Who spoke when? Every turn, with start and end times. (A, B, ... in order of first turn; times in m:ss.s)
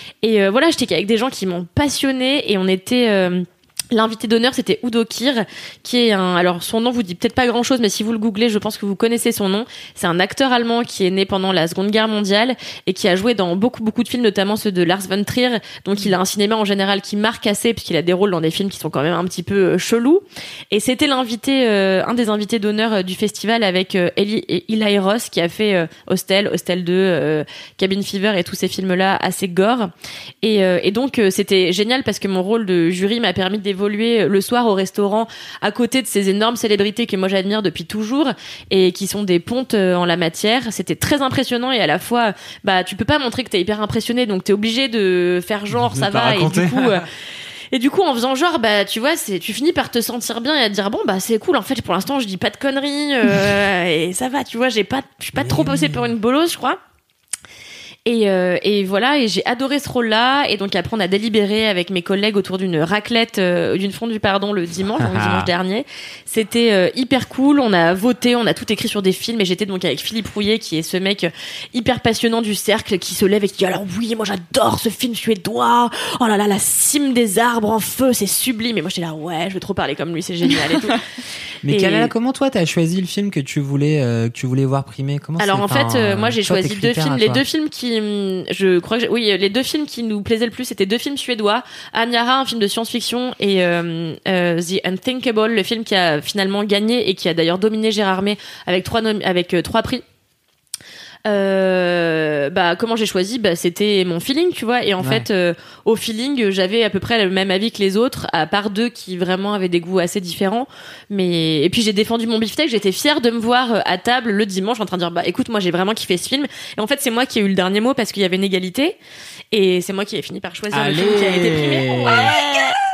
0:00.2-0:47.1 A
0:45.7-0:47.0 B
0:47.7-0:56.8 A
0:55.4-0:56.1 B
0:58.0-1:21.0 A
1:05.0-1:05.5 B
1:21.6-1:27.4 B
1:21.6-1:22.1 A
1:25.4-1:40.0 A
1:41.2-1:59.0 A
1:45.0-1:45.3 B
1:59.5-2:02.7 A
2:00.7-2:02.4 B